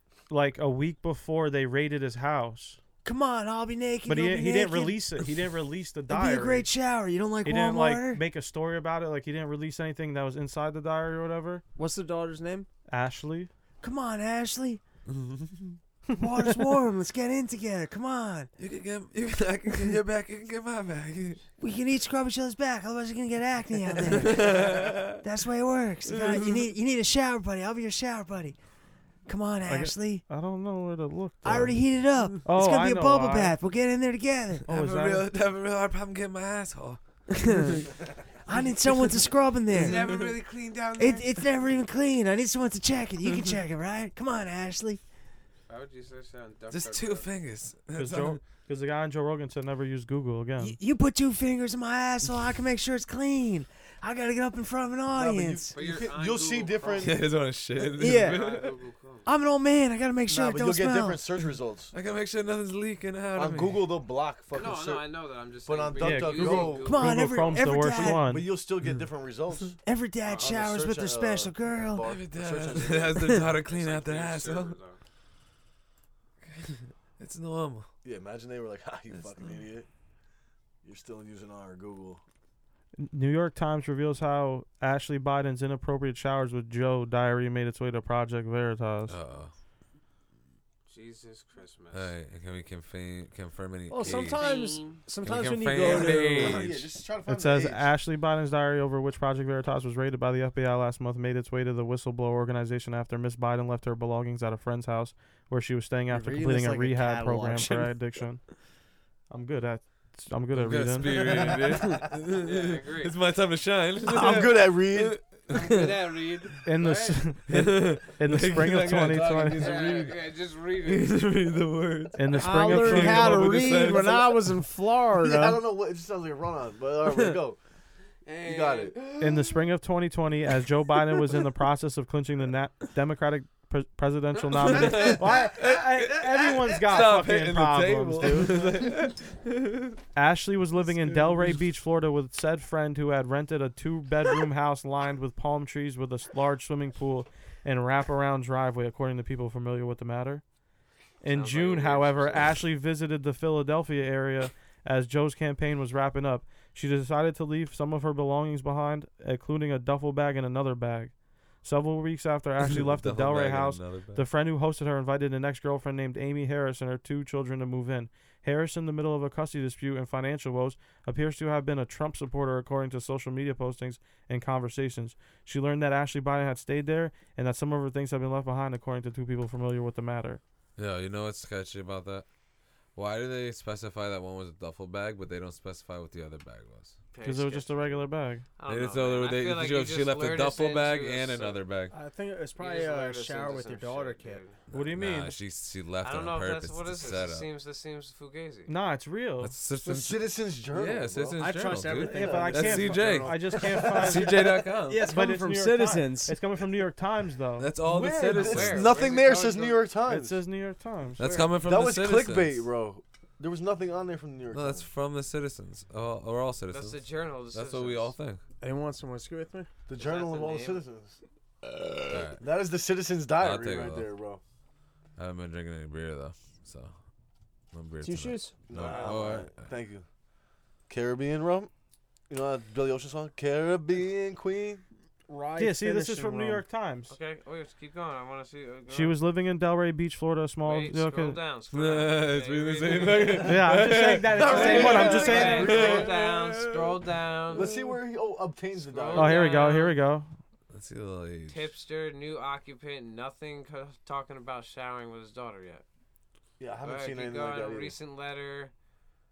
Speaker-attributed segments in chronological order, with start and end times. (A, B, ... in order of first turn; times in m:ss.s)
0:00.3-0:02.8 A
0:03.0-0:05.2 B
0:04.1-0:06.7 A
0:06.1-0:08.2 B
0:07.4-0:11.6 A
0:11.8-0:12.7 B
0:12.9-0:13.5 A
0:13.8-0:14.8 B
0:15.1-0:15.8 C
0:16.1-0:16.6 A
0:16.2-0:18.5 B
0:18.6-0:21.4 C
0:21.6-0:28.6 B
0:24.0-0:25.2 C
0:26.1-0:26.7 C
0:29.3-0:30.2 B
0:29.6-0:31.8 A
0:31.4-0:34.6 B
0:32.4-0:33.6 A
0:34.7-0:35.3 A
0:34.7-0:37.0 C
0:37.3-0:37.9 B
0:38.4-0:40.0 B
0:39.7-0:40.3 C
0:39.7-0:41.4 D
0:41.0-0:45.0 B
0:45.7-0:47.3 D
0:46.7-0:48.4 C
0:47.9-0:50.8 A
0:50.6-0:55.7 B
0:55.1-0:57.2 E
0:55.7-0:57.1 D
0:57.0-0:58.7 C
0:57.9-0:58.4 B
0:58.0-0:59.3 D
0:59.2-1:01.2 B
1:00.3-1:01.9 E
1:01.9-1:03.9 C
1:03.3-1:05.1 E
1:04.5-1:07.5 D
1:05.6-1:07.0 E
1:06.0-1:08.5 A
1:06.8-1:08.2 B
1:07.9-1:09.8 E
1:09.8-1:12.0 B
1:10.3-1:10.5 D
1:10.3-1:13.4 E
1:12.0-1:14.8 C
1:13.6-1:15.0 D
1:16.4-1:17.9 C
1:18.0-1:19.9 E
1:19.1-1:19.6 C
1:20.8-1:22.2 E
1:23.0-1:29.2 A
1:29.1-1:29.5 C
1:30.9-1:32.1 D
1:31.9-1:34.7 C
1:33.9-1:36.8 B
1:34.0-1:35.0 D
1:35.2-1:36.8 C
1:35.8-1:37.9 E
1:37.3-1:48.4 A
1:46.1-1:48.0 B
1:49.3-1:51.5 A
1:50.5-1:55.9 C
1:51.3-1:51.6 E
1:52.4-1:53.1 D
1:54.0-1:55.2 E
1:55.5-1:57.2 D
1:56.6-1:59.8 A
1:57.5-2:00.2 C
1:59.6-2:01.2 D
2:00.8-2:04.4 C
2:02.2-2:04.0 A
2:02.3-2:05.6 B
2:05.1-2:07.6 E
2:08.2-2:09.4 D
2:08.4-2:09.0 E
2:09.2-2:18.6 A
2:14.6-2:20.0 C
2:14.7-2:15.6 E
2:20.1-2:30.4 A
2:20.9-2:21.6 C
2:31.2-3:00.4 A
2:31.2-2:32.6 D
2:42.6-2:44.2 C
3:00.8-3:02.2 C
3:02.9-3:07.0 C
3:07.1-3:11.6 D
3:07.2-3:08.5 A
3:08.6-3:11.9 C
3:11.9-3:14.4 B
3:12.6-3:14.6 D
3:14.7-3:17.5 C
3:14.7-3:15.4 A
3:16.0-3:18.7 D
3:18.7-3:19.6 A
3:19.4-3:25.1 C
3:19.8-3:23.0 E
3:21.4-3:26.4 B
3:22.0-3:24.4 A
3:25.0-3:27.7 A
3:27.6-3:29.1 C
3:27.8-3:30.4 E
3:28.3-3:29.8 D
3:30.1-3:31.2 A
3:31.2-3:32.6 C
3:31.2-3:31.4 D
3:31.6-3:34.9 E
3:34.5-3:38.4 C
3:36.7-3:38.1 D
3:38.6-3:39.7 B
3:39.9-3:41.2 E
3:40.0-3:40.8 D
3:41.7-3:44.4 E
3:42.1-3:42.4 C
3:43.4-3:44.1 C
3:45.2-3:46.9 C
3:47.7-3:49.7 C
3:48.0-3:49.1 B
3:48.7-3:50.0 E
3:50.9-3:51.7 E
3:52.3-3:54.8 E
3:55.3-3:56.6 B
3:55.6-3:57.1 A
3:57.1-3:59.2 D
3:58.9-4:01.4 A
4:00.6-4:03.6 D
4:01.7-4:08.0 C
4:03.4-4:05.9 A
4:04.3-4:06.2 E
4:04.4-4:07.7 D
4:07.5-4:09.4 E
4:08.7-4:10.0 D
4:09.1-4:10.3 A
4:10.7-4:11.7 C
4:11.5-4:15.8 D
4:16.6-4:17.9 E
4:16.8-4:18.7 D